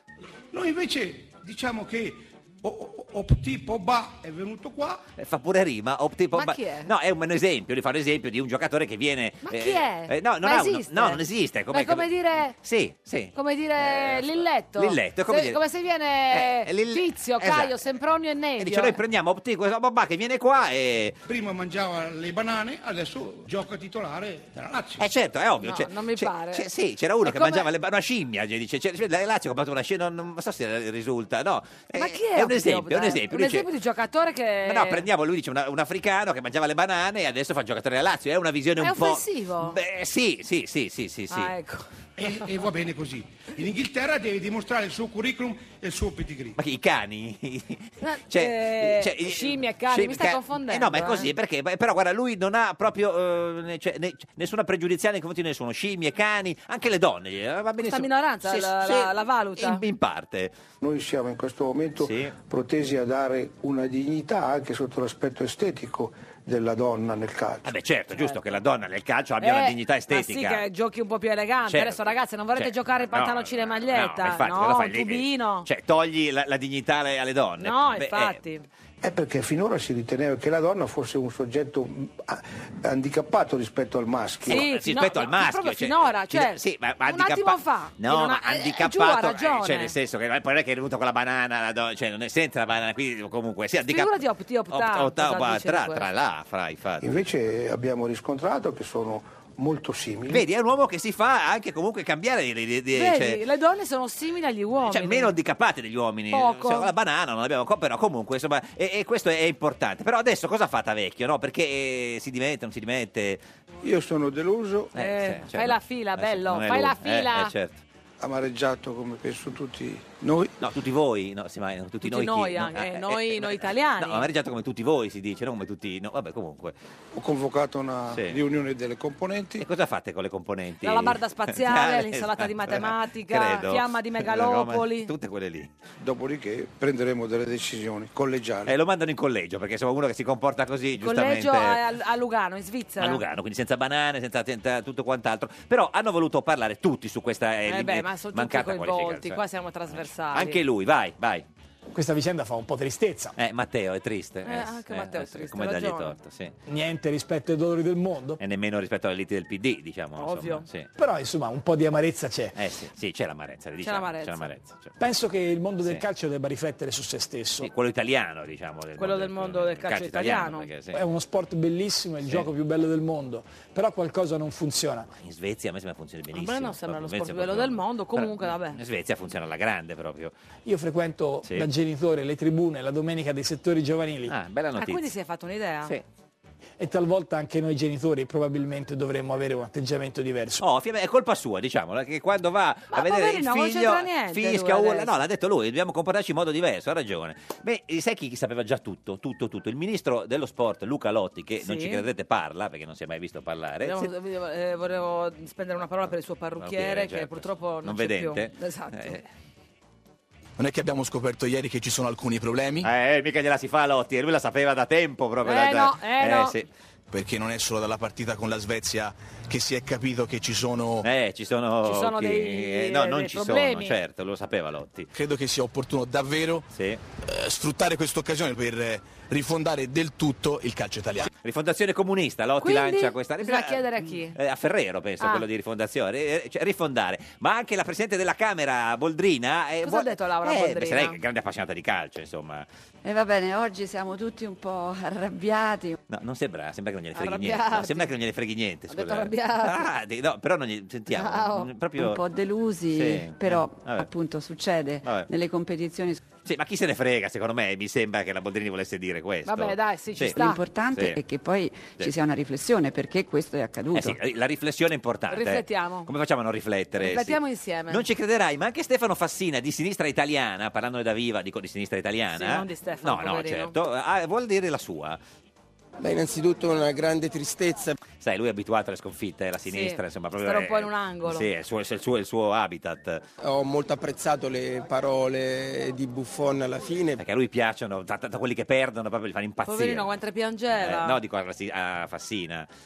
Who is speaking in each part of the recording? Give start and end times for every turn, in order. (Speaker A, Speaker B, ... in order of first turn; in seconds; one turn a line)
Speaker A: 0.5-5.0
Speaker B: 5.2-15.6
Speaker C: 6.3-6.9
Speaker C: 9.4-12.6
Speaker C: 13.3-19.0
Speaker B: 16.3-17.8
Speaker B: 18.6-21.2
Speaker A: 21.2-25.1
Speaker B: 25.0-33.7
Speaker C: 25.6-26.6
Speaker C: 27.2-27.7
Speaker C: 31.9-35.0
Speaker B: 34.6-41.5
Speaker C: 38.8-39.8
Speaker C: 41.3-41.9
Speaker A: 42.2-46.6
Speaker B: 46.6-60.5
Speaker C: 48.0-51.3
Speaker C: 57.8-59.8
Speaker D: 60.8-67.7
Speaker B: 62.0-62.4
Speaker B: 67.6-70.6
Speaker C: 68.2-68.4
Speaker C: 69.4-75.7
Speaker B: 71.7-78.4
Speaker C: 77.6-78.6
Speaker D: 79.0-84.6
Speaker B: 84.4-97.1
Speaker C: 84.5-89.9
Speaker C: 93.9-96.0
Speaker D: 97.0-100.4
Speaker B: 100.3-103.4
Speaker C: 102.9-105.3
Speaker B: 104.9-113.4
Speaker C: 106.3-106.9
Speaker D: 113.8-114.9
Speaker C: 114.9-117.5
Speaker B: 114.9-117.8
Speaker D: 118.2-120.5
Speaker B: 120.6-126.8
Speaker C: 122.0-124.3
Speaker D: 127.1-129.6
Speaker B: 128.1-128.4
Speaker B: 129.6-135.7
Speaker C: 130.8-135.1
Speaker D: 136.0-138.8
Speaker B: 138.7-141.8
Speaker C: 141.0-143.2
Speaker B: 143.0-151.4
Speaker C: 147.7-150.6
Speaker E: 151.9-153.3
Speaker B: 153.4-156.5
Speaker C: 154.4-156.1
Speaker E: 156.7-158.4
Speaker B: 158.4-160.9
Speaker C: 160.2-160.7
Speaker E: 161.0-162.6
Speaker B: 162.5-164.9
Speaker C: 163.8-164.5
Speaker E: 165.0-167.7
Speaker B: 167.6-171.0
Speaker C: 169.0-170.7
Speaker E: 170.9-175.1
Speaker B: 175.2-180.3
Speaker C: 176.3-178.8
Speaker E: 180.7-184.3
Speaker B: 184.3-185.1
Speaker C: 184.8-185.9
Speaker E: 186.8-190.6
Speaker B: 190.6-204.1
Speaker C: 192.9-195.1
Speaker C: 201.6-202.0
Speaker C: 203.8-209.2
Speaker B: 206.6-209.3
Speaker F: 210.6-212.9
Speaker B: 212.8-216.7
Speaker C: 215.4-216.6
Speaker F: 217.1-221.1
Speaker B: 221.0-225.1
Speaker C: 221.8-223.9
Speaker F: 225.1-226.7
Speaker B: 226.7-227.0
Speaker F: 227.2-231.3
Speaker B: 231.4-242.7
Speaker C: 232.6-234.4
Speaker C: 235.2-235.4
Speaker C: 239.8-241.2
Speaker G: 243.0-246.0
Speaker B: 246.1-252.2
Speaker C: 247.1-248.1
Speaker C: 248.9-249.8
Speaker C: 251.1-251.7
Speaker G: 251.9-256.2
Speaker B: 252.9-254.1
Speaker B: 255.0-255.3
Speaker B: 256.4-261.2
Speaker C: 259.4-260.6
Speaker G: 260.4-264.2
Speaker B: 263.9-275.2
Speaker C: 265.3-266.1
Speaker C: 267.0-268.0
Speaker C: 272.3-273.7
Speaker H: 276.0-278.0
Speaker B: 278.2-283.2
Speaker C: 279.7-281.5
Speaker H: 283.4-287.2
Speaker B: 287.2-290.1
Speaker C: 289.6-291.2
Speaker B: 290.8-292.7